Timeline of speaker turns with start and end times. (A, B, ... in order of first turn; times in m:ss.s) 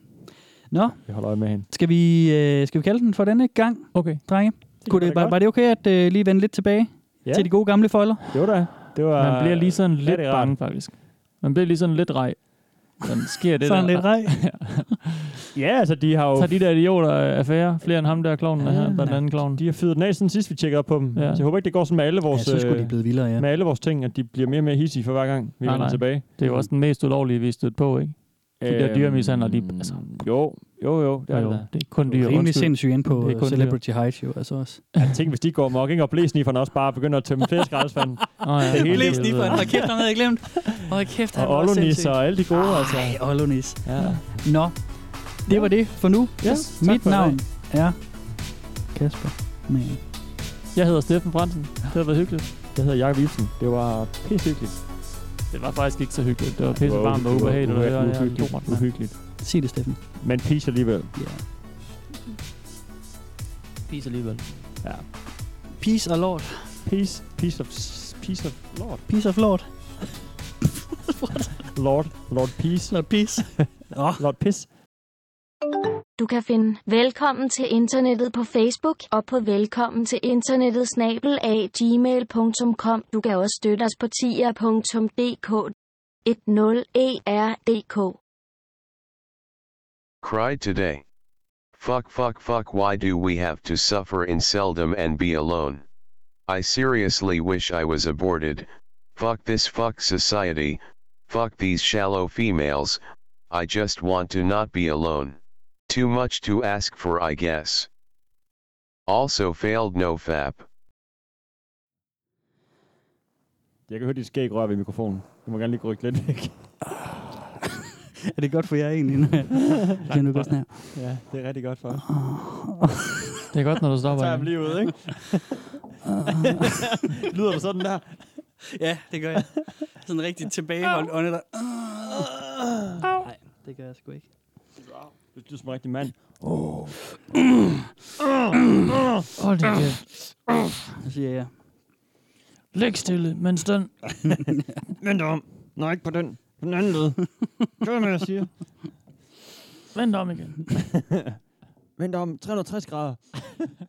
0:00.7-0:08.5 A
0:01.0-0:01.7 B
0:03.9-0:04.2 C
0:04.8-0:05.4 B
0:07.2-0:10.8 B
0:09.1-0:15.1 C
0:13.6-0:14.9 A
0:15.5-0:16.5 B
0:16.3-0:19.6 C
0:18.6-0:19.3 A
0:18.7-0:19.0 B
0:19.5-0:26.6 B
0:21.1-0:21.4 C
0:22.3-0:23.4 A
0:25.6-0:30.3 C
0:28.6-0:31.7 B
0:31.3-0:33.8 C
0:32.0-0:34.9 A
0:35.0-0:40.0 B
0:38.4-0:39.8 C
0:38.7-0:50.0 A
0:41.3-0:44.4 B
0:46.4-0:47.4 B
0:50.7-0:52.5 C
0:52.6-0:54.8 B
0:55.5-0:59.1 C
0:56.7-0:59.2 B
0:59.4-1:00.0 A
1:00.2-1:01.2 B
1:01.1-1:01.4 A
1:03.9-1:04.5 C
1:05.8-1:06.8 A
1:06.8-1:09.0 B
1:09.0-1:09.7 A
1:11.7-1:14.7 B
1:12.9-1:14.2 A
1:16.2-1:25.7 D
1:26.2-1:28.2 D
1:30.2-1:31.0 E
1:31.8-1:35.8 E
1:36.5-1:47.9 E
1:49.1-1:50.6 E
1:53.9-1:56.6 B
1:58.4-2:01.0 A
2:00.1-2:00.6 C
2:00.9-2:02.1 B
2:02.0-2:03.0 A
2:03.5-2:04.8 C
2:04.1-2:05.6 B
2:06.0-2:06.8 A
2:06.9-2:08.4 B
2:08.7-2:12.3 A
2:13.2-2:14.3 A
2:14.9-2:17.0 B
2:18.2-2:18.8 B
2:19.4-2:20.1 C
2:21.0-2:21.5 A
2:22.7-2:24.5 C
2:25.0-2:28.5 B
2:29.9-2:30.7 C
2:30.8-2:31.1 B
2:32.0-2:33.7 B